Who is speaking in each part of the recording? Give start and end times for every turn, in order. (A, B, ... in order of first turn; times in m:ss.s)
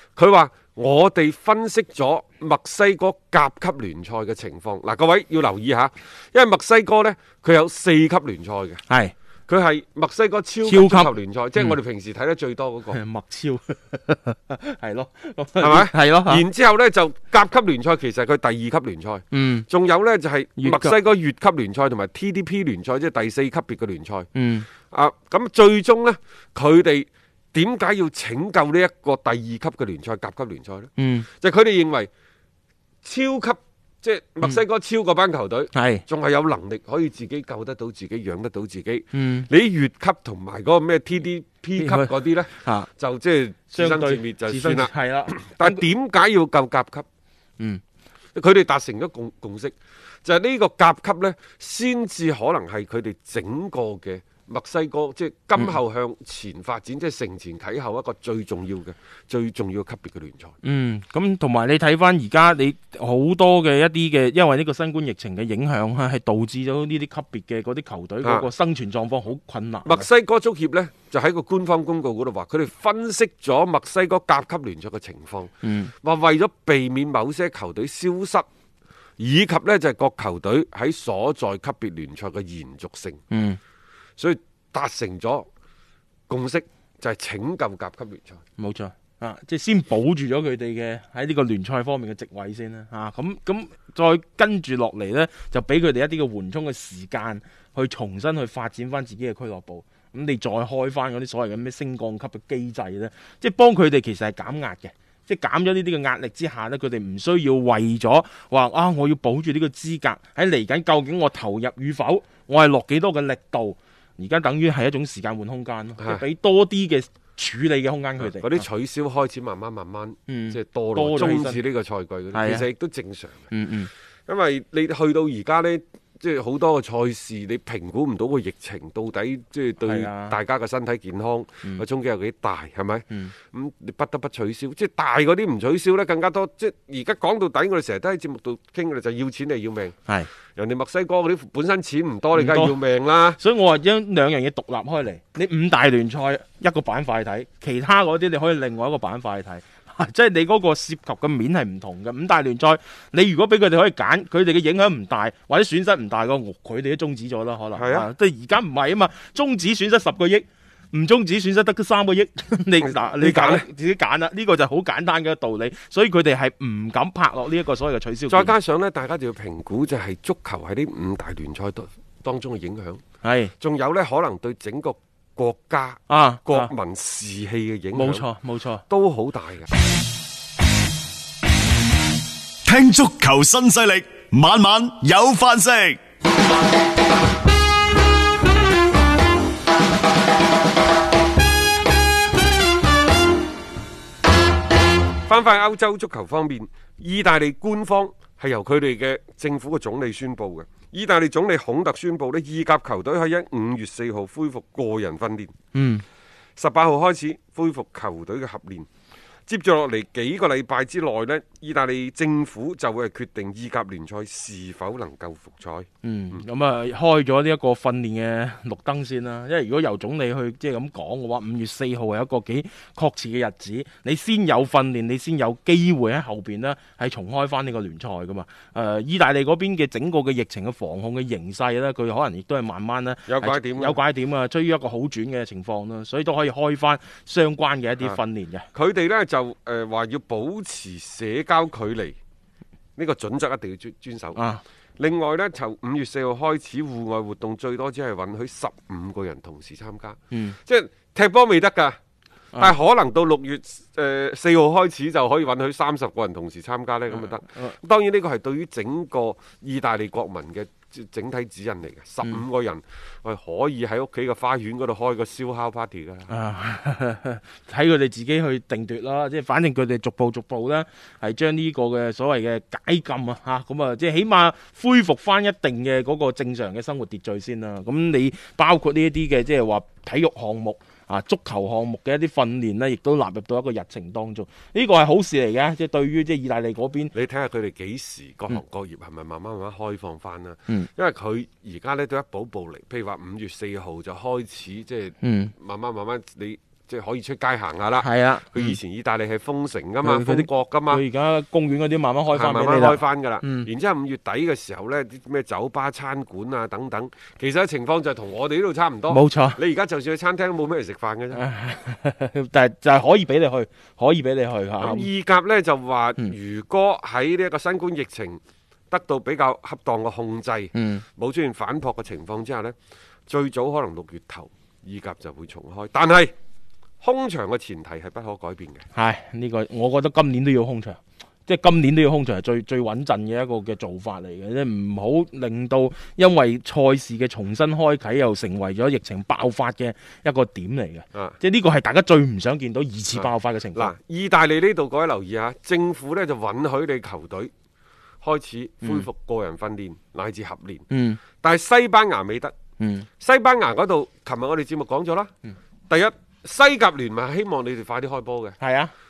0:00.2-0:08.8 A
0:08.9-0:09.1 B
0:09.5-0:13.0 A
0:10.6-0:11.8 B
0:12.9-0:16.4 B
0:15.6-0:24.3 A
0:19.3-0:19.7 B
0:20.6-0:21.0 B
0:24.3-0:24.7 B
0:24.9-0:32.1 A
0:31.0-0:31.3 B
0:33.0-0:47.1 A
0:35.7-0:36.0 B
0:39.1-0:39.5 B
0:41.8-0:42.9 B
0:43.7-0:45.8 B
0:48.4-1:00.6 A
1:00.6-1:10.1 B
1:08.2-1:08.5 A
1:09.9-1:18.5 A
1:15.6-1:15.9 B
1:19.2-1:23.2 A
1:23.3-1:23.6 B
1:24.2-1:25.5 A
1:26.3-1:28.4 A
1:28.6-1:58.7 B
1:56.0-1:56.2 A
1:58.2-2:03.5 A
2:00.3-2:01.6 B
2:02.3-2:02.7 B
2:03.5-2:03.9 B
2:04.3-2:20.0 A
2:09.8-2:10.4 B
2:13.1-2:13.4 B
2:20.6-2:23.4 A
2:22.3-2:22.8 B
2:23.4-2:48.5 B
2:37.7-2:38.1 A
2:42.8-2:43.7 A
2:48.3-2:53.0 A
2:53.2-2:53.5 B
2:53.6-2:58.3 A
2:56.1-2:56.7 B
2:57.9-2:58.8 B
2:58.9-2:59.7 A
3:02.7-3:06.0 C
3:15.3-3:25.6 A
3:25.7-3:26.0 B
3:26.6-3:28.9 A
3:29.5-3:36.4 A
3:36.0-3:58.7 B
3:53.3-3:54.0 A
3:58.7-4:02.2 A
4:03.0-4:04.4 A
4:04.4-4:04.6 B
4:05.0-4:12.0 A
4:10.3-4:10.6 B
4:12.6-4:26.3 A
4:17.2-4:17.7 B
4:26.3-4:47.1 B
4:47.1-5:01.0 A
4:55.2-4:55.5 B
4:58.0-4:58.8 B
5:00.0-5:03.7 B
5:02.3-5:11.4 A
5:09.1-5:09.6 B
5:11.3-5:15.1 B
5:14.8-5:18.4 A
5:18.9-5:22.8 A
5:20.7-5:21.0 B
5:23.3-5:26.3 A
5:27.0-5:28.9 A
5:28.9-5:43.9 B
5:43.2-5:47.5 A
5:48.2-5:50.9 A
5:50.9-5:51.2 B
5:51.4-5:52.6 A
5:52.8-5:53.1 B
5:53.2-5:55.3 A
5:55.9-5:58.6 A
5:58.6-5:58.9 B